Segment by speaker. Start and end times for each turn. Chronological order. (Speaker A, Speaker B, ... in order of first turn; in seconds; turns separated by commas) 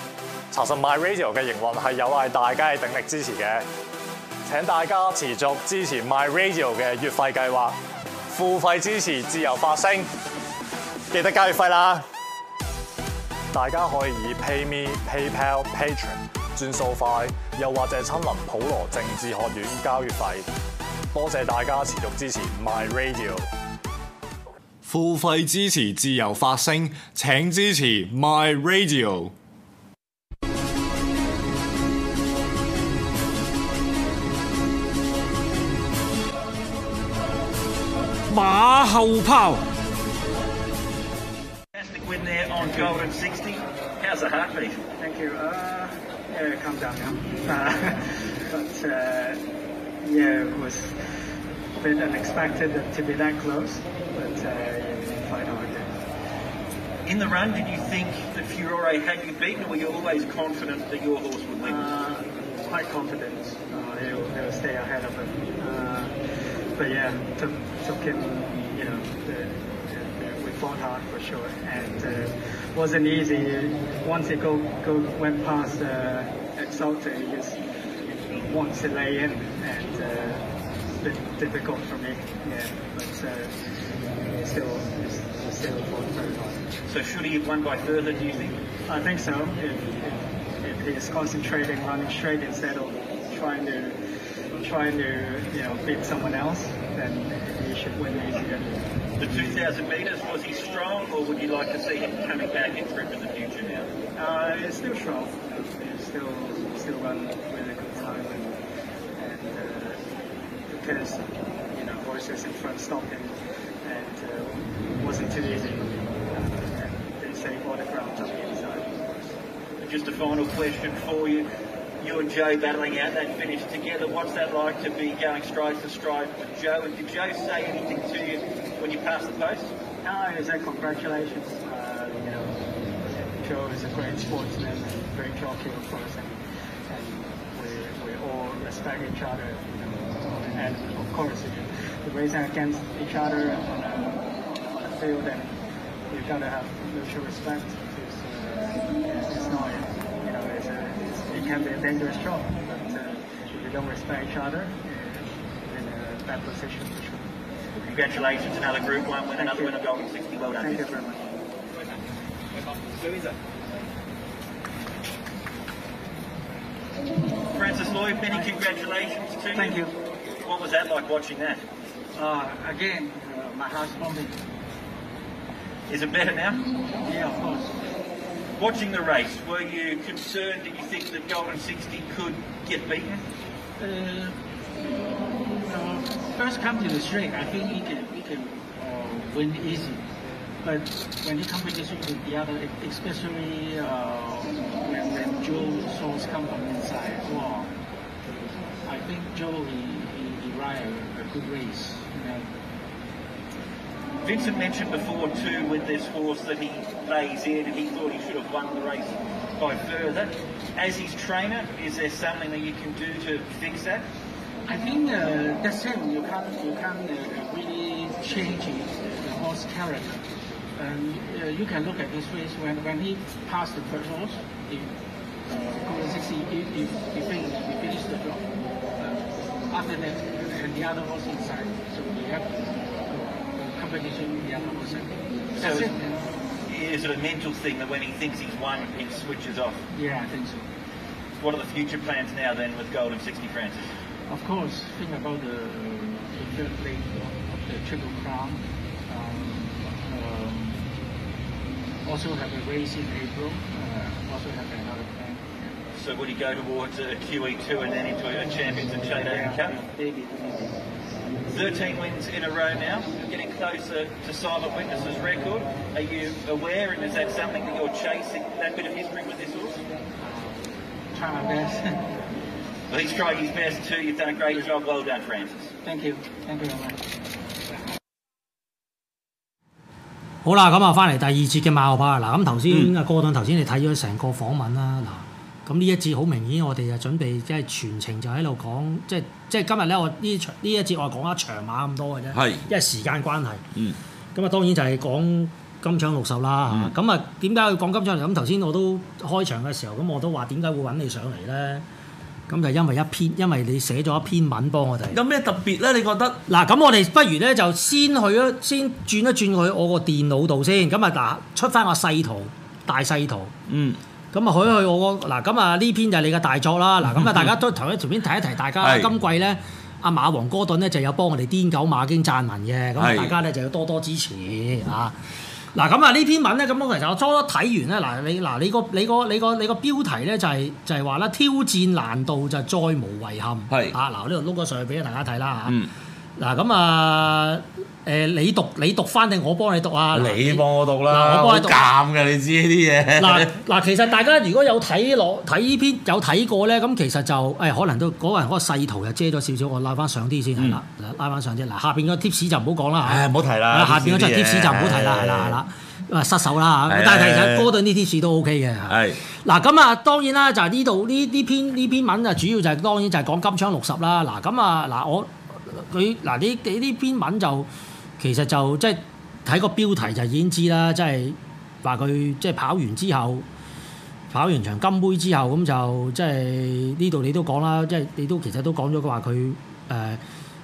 Speaker A: 0.5-3.6, Speaker A: 4.5-7.8, Speaker A: 8.3-10.1, Speaker A: 11.1-12.0, Speaker A: 13.5-20.5, Speaker A: 21.1-23.5, Speaker A: 24.8-29.3, Speaker A: 38.3-39.6, Speaker B: 41.7-44.8, Speaker C: 45.0-49.4, Speaker C: 50.0-51.0, Speaker C: 51.8-56.0, Speaker B: 57.0-62.0, Speaker C: 61.6-66.1, Speaker C: 66.8-77.6, Speaker C: 78.2-80.5, Speaker C: 81.0-83.5, Speaker C: 84.2-86.6, Speaker B: 86.9-88.6, Speaker C: 88.9-94.0, Speaker C: 94.6-99.7, Speaker B: 99.2-103.9, Speaker C: 104.2-108.6, Speaker C: 109.1-110.1, Speaker C: 110.7-119.3, Speaker B: 119.8-121.5, Speaker B: 122.0-129.7, Speaker C: 130.0-145.6, Speaker C: 146.1-157.3, Speaker B: 157.8-160.9, Speaker C: 159.4-159.7, Speaker C: 160.6-161.4, Speaker B: 163.0-163.3, Speaker B: 167.5-169.9, Speaker C: 169.5-169.9, Speaker B: 170.4-171.6, Speaker D: 172.1-174.4, Speaker B: 175.9-176.7, Speaker D: 177.0-177.8, Speaker B: 178.6-183.2, Speaker D: 183.8-184.4, Speaker D: 185.4-190.1, Speaker D: 190.6-197.7, Speaker D: 198.8-202.5, Speaker B: 204.2-214.1, Speaker D: 214.7-224.9, Speaker D: 225.5-236.3, Speaker B: 235.6-235.9, Speaker B: 236.7-239.8, Speaker D: 239.9-240.7, Speaker B: 241.4-243.8, Speaker D: 244.3-250.8, Speaker D: 252.0-255.7, Speaker B: 255.9-259.8, Speaker D: 259.1-260.8, Speaker B: 261.5-269.8, Speaker D: 270.2-272.1, Speaker B: 272.9-275.7, Speaker D: 275.8-277.0, Speaker E: 280.4-293.6, Speaker F: 292.3-292.6, Speaker E: 294.3-301.8, Speaker E: 302.5-305.2, Speaker F: 305.1-306.4, Speaker E: 306.5-313.5, Speaker F: 313.7-314.0, Speaker E: 314.3-325.1, Speaker F: 318.8-319.1, Speaker F: 323.0-323.3, Speaker E: 325.7-335.8, Speaker F: 333.7-333.9, Speaker E: 336.4-341.9, Speaker F: 340.1-343.5, Speaker E: 343.2-367.7, Speaker F: 353.0-355.6, Speaker F: 356.9-357.7, Speaker F: 358.9-359.2, Speaker E: 368.2-373.4, Speaker E: 374.3-380.2